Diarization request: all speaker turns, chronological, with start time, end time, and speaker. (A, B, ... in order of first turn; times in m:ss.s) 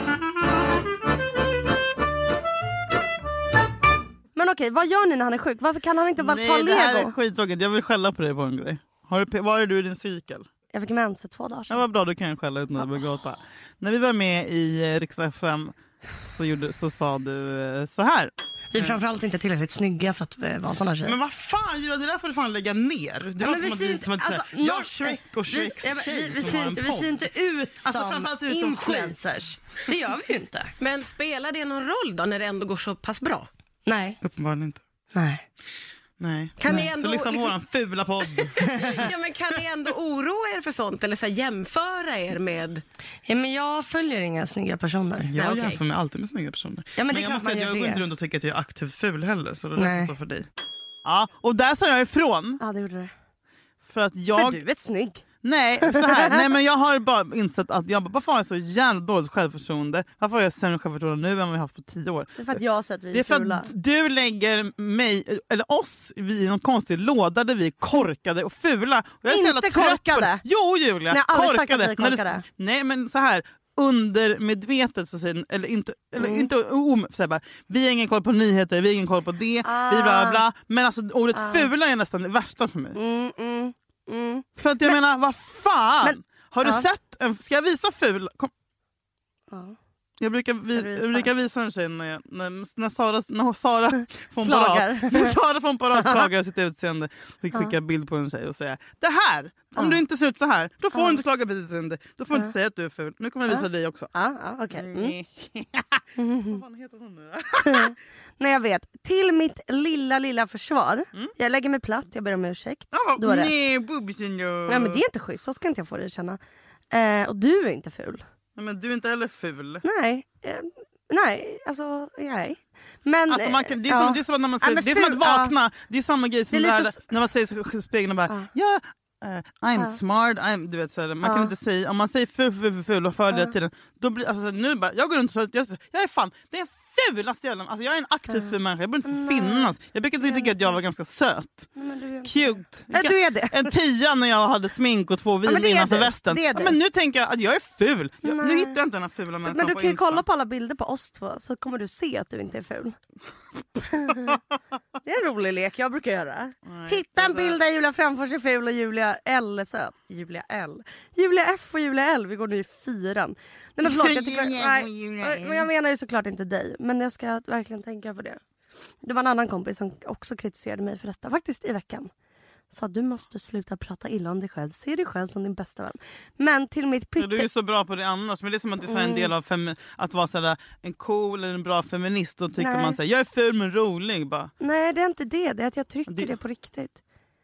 0:04.4-0:07.1 A
0:06.2-0:10.5 B
0:10.7-0:11.8 A
0:11.7-0:19.0 B
0:18.7-0:21.2 A
0:21.0-0:27.3 B
0:23.4-0:30.7 A
0:27.8-0:29.2 B
0:30.8-0:33.5 C
0:33.9-0:34.2 A
0:34.2-0:34.8 B
0:35.1-0:35.4 A
0:36.2-0:39.0 B
0:36.6-0:37.6 C
0:38.6-0:39.1 A
0:38.7-0:42.8 C
0:43.3-0:45.3 A
0:45.3-0:50.5 B
0:45.4-0:45.8 C
0:47.0-0:48.0 A
0:49.8-0:50.1 A
0:51.0-0:52.6 B
0:52.6-0:53.1 A
0:53.8-0:54.6 B
0:54.3-0:55.2 A
0:55.4-1:02.6 B
0:55.8-0:56.4 A
1:02.4-1:03.7 A
1:03.1-1:23.0 B
1:09.3-1:10.4 A
1:11.1-1:12.4 A
1:16.2-1:16.5 A
1:19.6-1:20.4 A
1:21.4-1:21.7 A
1:23.0-1:25.0 A
1:24.6-1:28.5 B
1:26.0-1:26.9 A
1:29.5-1:29.8 A
1:30.2-1:44.1 B
1:30.7-1:31.3 A
1:34.4-1:35.4 A
1:36.0-1:36.3 A
1:40.9-1:41.2 A
1:43.5-1:45.2 A
1:44.7-1:47.9 B
1:46.2-1:46.6 A
1:47.6-1:53.5 A
1:52.9-1:55.0 B
1:54.7-1:56.4 A
1:56.9-1:58.2 A
1:58.6-1:59.8 B
1:59.8-2:05.5 A
2:03.3-2:21.7 B
2:06.5-2:07.0 A
2:11.2-2:11.5 A
2:19.1-2:19.7 A
2:20.2-2:20.7 A
2:21.8-2:23.7 A
2:22.2-2:30.2 B
2:25.4-2:26.8 A
2:28.2-2:28.8 A
2:29.5-2:33.0 A
2:33.8-2:34.4 A
2:35.0-2:48.4 A
2:36.7-2:37.6 B
2:43.8-2:45.7 B
2:49.0-2:52.1 A
2:52.7-2:57.5 A
2:57.2-3:04.5 B
2:58.8-2:59.3 A
3:02.6-3:03.0 A
3:04.6-3:07.0 A
3:06.1-3:06.3 B